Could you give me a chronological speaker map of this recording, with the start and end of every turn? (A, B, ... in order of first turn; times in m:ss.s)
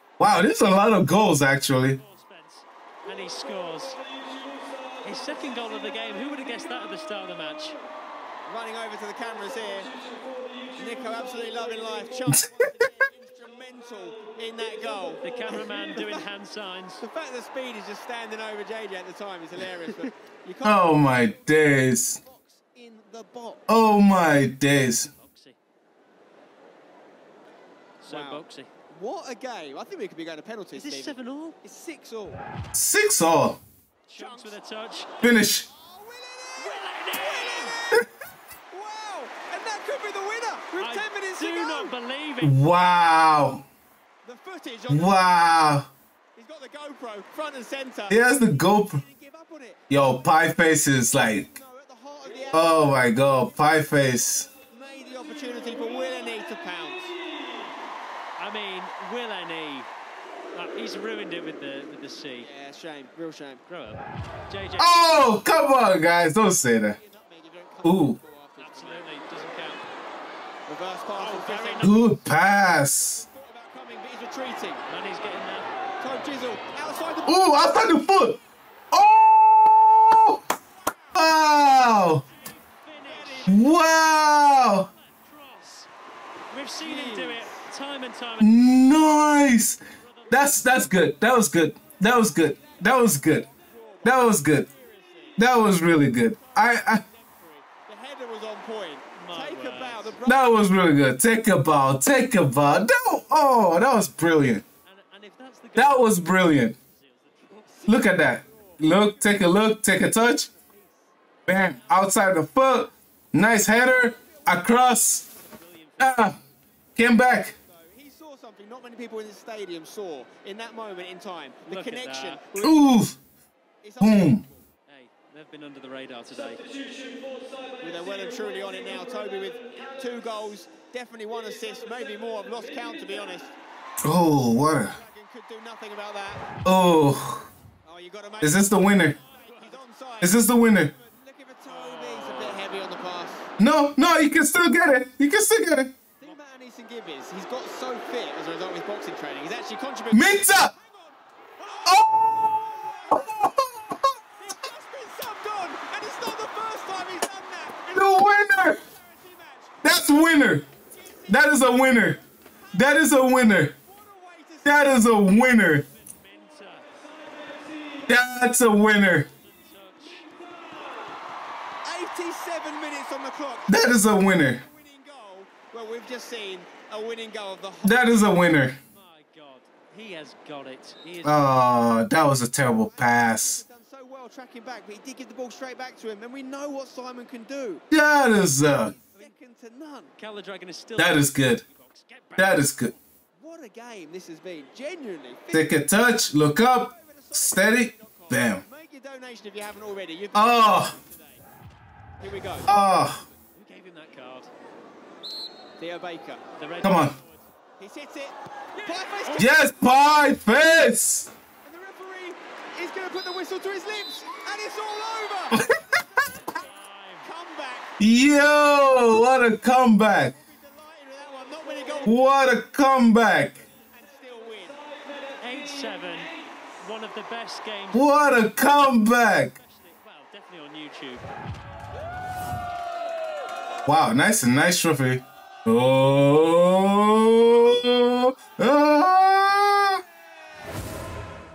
0:00.2-0:02.0 A
0:01.8-0:04.0 B
0:05.0-0:07.8 B
0:08.4-0:09.9 C
0:10.7-0:16.2 C
0:12.3-0:12.6 A
0:15.2-0:17.0 B
0:17.0-0:21.0 C
0:20.6-0:22.2 A
0:22.2-0:23.7 C
0:23.7-0:25.1 A
0:25.2-0:25.6 B
0:28.0-0:28.7 B
0:28.1-0:32.4 C
0:30.7-0:31.6 B
0:32.7-0:33.6 A
0:34.1-0:35.1 B
0:34.2-0:34.6 C
0:35.2-0:35.6 A
0:35.2-0:38.1 C
0:36.6-0:37.8 B
0:38.7-0:41.9 C
0:40.8-0:42.5 B
0:42.4-0:43.6 A
0:44.2-0:45.1 C
0:44.9-0:45.9 A
0:46.4-0:48.3 C
0:48.1-0:49.0 A
0:48.8-0:49.8 C
0:49.9-0:51.5 A
0:51.1-0:53.0 C
0:52.5-0:54.5 A
0:54.7-0:57.1 C
0:58.4-0:59.9 B
1:00.5-1:02.5 B
1:02.4-1:03.6 C
1:03.7-1:05.1 B
1:04.8-1:07.0 A
1:06.8-1:09.2 C
1:07.8-1:08.2 A
1:08.6-1:09.8 B
1:10.7-1:12.0 C
1:11.2-1:12.0 B
1:11.8-1:13.2 A
1:13.1-1:14.8 C
1:14.9-1:15.7 B
1:16.0-1:17.7 C
1:17.2-1:18.4 A
1:18.9-1:20.4 A
1:21.1-1:22.2 A
1:22.2-1:23.6 B
1:23.1-1:23.6 C
1:23.4-1:24.9 A
1:24.9-1:25.9 B
1:26.5-1:28.5 B
1:26.8-1:27.6 C
1:28.4-1:33.4 A
1:30.0-1:30.9 B
1:32.4-1:35.4 C
1:34.0-1:34.7 A
1:35.4-1:37.0 A
1:36.2-1:40.5 C
1:39.2-1:40.2 B
1:40.2-1:44.6 A
1:44.8-1:47.5 B
1:45.8-1:46.7 A
1:47.5-1:49.5 C
1:47.8-1:50.5 A
1:50.2-1:51.1 C
1:51.4-1:55.2 A
1:54.4-1:54.6 C
1:55.5-1:56.4 B
1:56.0-1:56.4 A
1:57.0-1:57.5 A
1:57.3-2:02.8 C
2:01.7-2:02.5 B
2:02.6-2:03.2 A
2:03.8-2:04.6 C
2:04.0-2:04.4 A
2:04.9-2:06.7 B
2:07.8-2:13.6 C
2:14.0-2:15.0 A
2:14.7-2:16.4 C
2:16.6-2:17.5 A
2:17.8-2:23.5 C
2:18.4-2:19.2 A
2:19.4-2:19.8 B
2:20.2-2:20.9 A
2:21.7-2:22.7 B
2:23.6-2:26.0 A
2:26.2-2:33.8 C
2:30.1-2:30.7 A
2:31.8-2:34.1 A
2:34.3-2:39.9 C
2:37.9-2:38.8 A
2:39.8-2:40.6 A
2:40.9-2:42.1 C
2:41.3-2:42.2 A
2:42.7-2:45.1 C
2:42.7-2:43.7 A
2:44.6-2:45.8 A
2:45.6-2:46.9 B
2:48.0-2:49.3 A
2:49.4-2:50.3 B
2:51.8-2:58.2 C
2:53.7-2:54.6 A
2:57.8-2:58.8 A
2:58.9-3:01.4 B
3:01.2-3:03.6 A
3:02.9-3:07.8 C
3:07.9-3:09.0 A
3:08.8-3:10.1 C
3:10.2-3:13.0 B
3:11.0-3:11.6 A
3:12.4-3:12.9 A
3:13.4-3:15.7 C
3:15.5-3:18.6 A
3:16.9-3:21.4 C
3:20.3-3:21.0 A
3:22.2-3:22.7 C
3:22.7-3:23.2 A
3:23.6-3:24.5 B
3:25.8-3:26.4 C
3:26.6-3:27.4 B
3:26.8-3:27.2 A
3:27.8-3:29.7 C
3:28.7-3:29.5 B
3:29.3-3:31.3 A
3:31.6-3:35.7 C
3:35.5-3:36.0 A
3:36.4-3:37.3 B
3:37.2-3:37.9 C
3:38.0-3:40.3 A
3:40.2-3:42.1 C
3:42.0-3:43.6 A
3:43.8-3:44.8 C
3:45.4-3:48.0 B
3:47.9-3:49.5 A
3:49.3-3:51.2 B
3:53.8-4:00.0 A